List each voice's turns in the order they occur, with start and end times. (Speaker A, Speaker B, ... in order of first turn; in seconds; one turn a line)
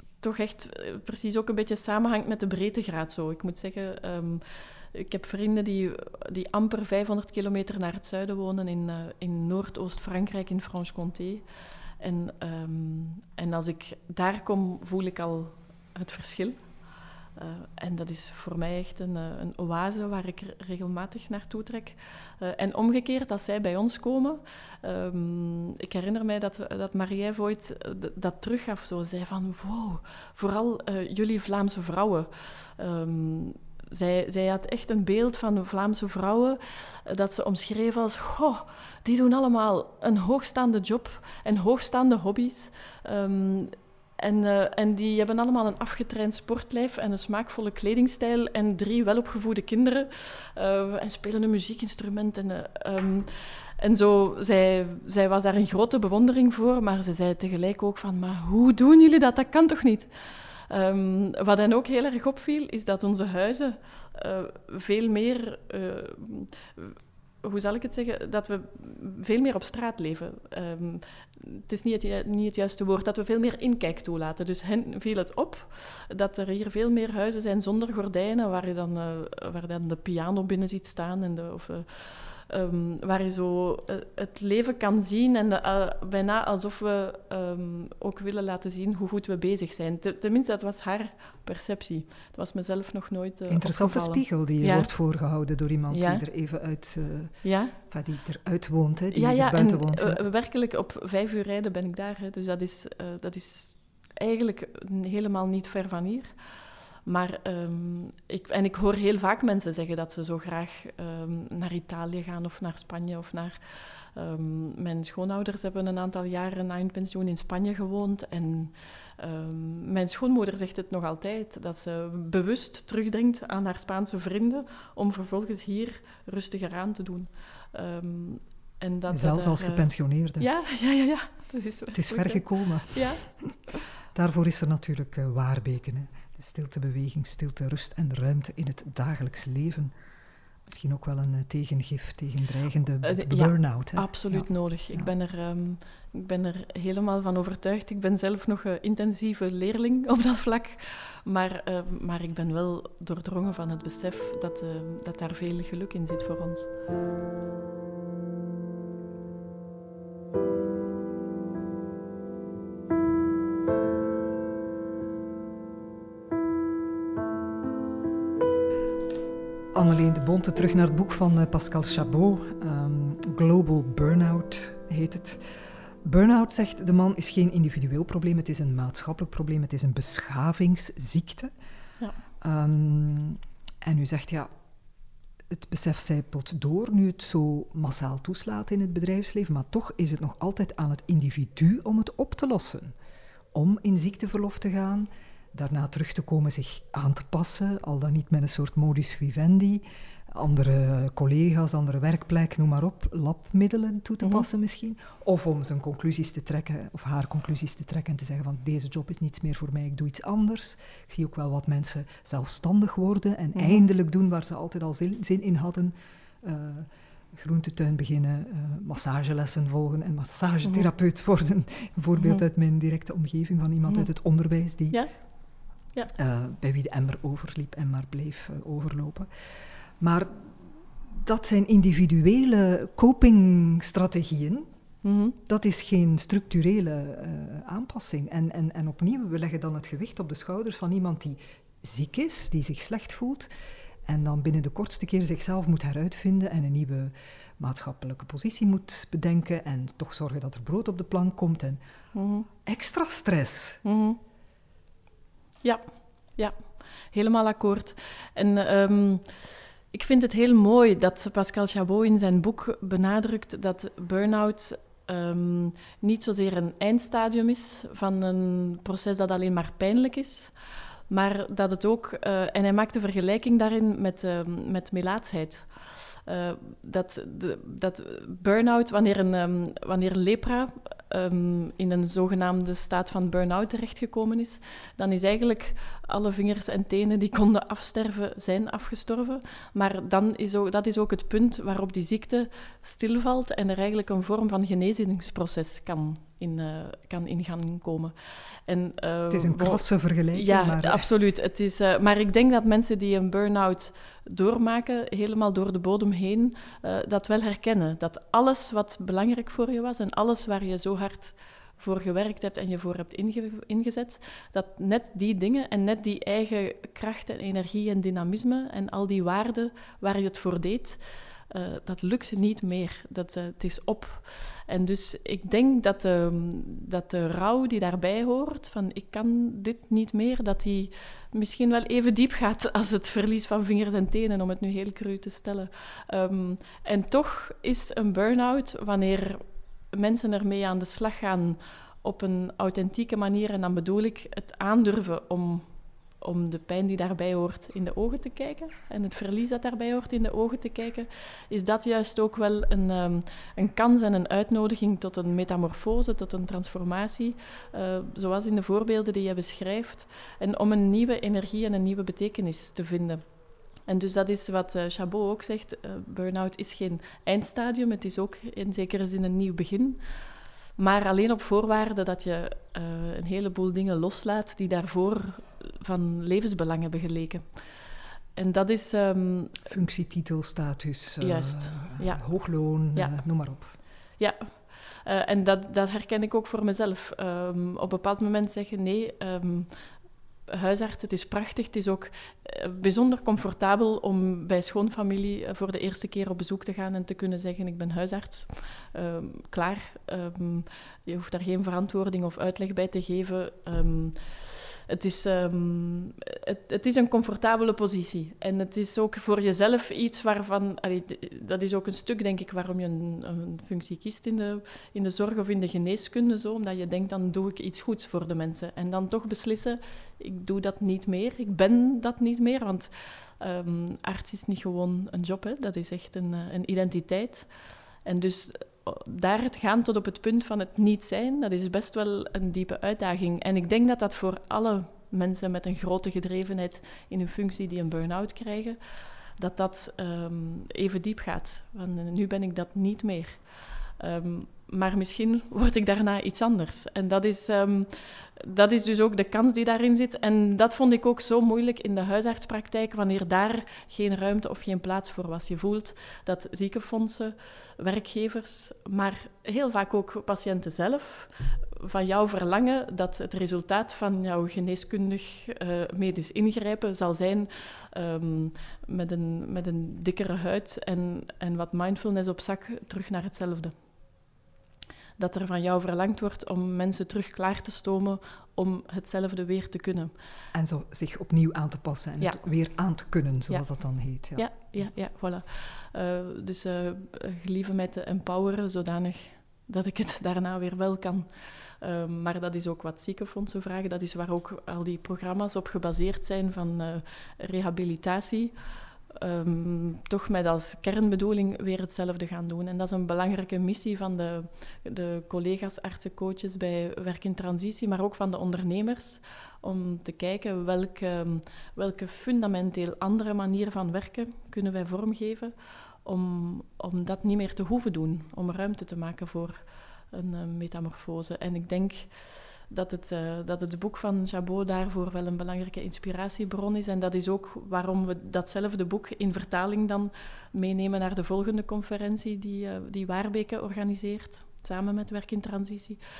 Speaker A: 0.2-11.4
Speaker A: 12.0-16.6
Speaker A: 17.4-94.9
Speaker B: 93.5-100.2
Speaker A: 95.9-96.2
Speaker A: 97.4-97.8
Speaker A: 99.1-106.3
Speaker A: 107.0-133.4
Speaker B: 129.1-130.5
Speaker B: 131.9-133.6
Speaker B: 134.1-139.9
Speaker B: 140.7-145.1
Speaker A: 143.0-156.7
Speaker B: 169.7-181.5
Speaker B: 182.4-184.5
Speaker B: 185.5-192.9
Speaker B: 193.5-225.0
Speaker A: 213.6-213.9
Speaker A: 222.2-222.4
Speaker A: 224.9-226.1
Speaker B: 226.1-229.3
Speaker B: 230.0-234.7
Speaker A: 235.0-235.4
Speaker B: 235.5-243.5
Speaker B: 244.1-251.8
Speaker A: 252.1-252.5
Speaker B: 252.6-253.8
Speaker A: 253.8-254.2
Speaker A: 256.4-270.5
Speaker A: 271.1-363.2
Speaker B: 299.3-301.1
Speaker A: 363.9-370.0
Speaker A: 370.8-377.6
Speaker A: 378.4-379.7
Speaker B: 379.7-383.7
Speaker A: 381.2-383.2
Speaker A: 383.8-389.7
Speaker A: 390.5-427.5
Speaker A: 428.1-438.8
Speaker A: 439.4-473.7
Speaker A: 475.2-480.1
Speaker B: 480.5-484.9
Speaker A: 483.5-498.6
Speaker A: 499.1-536.0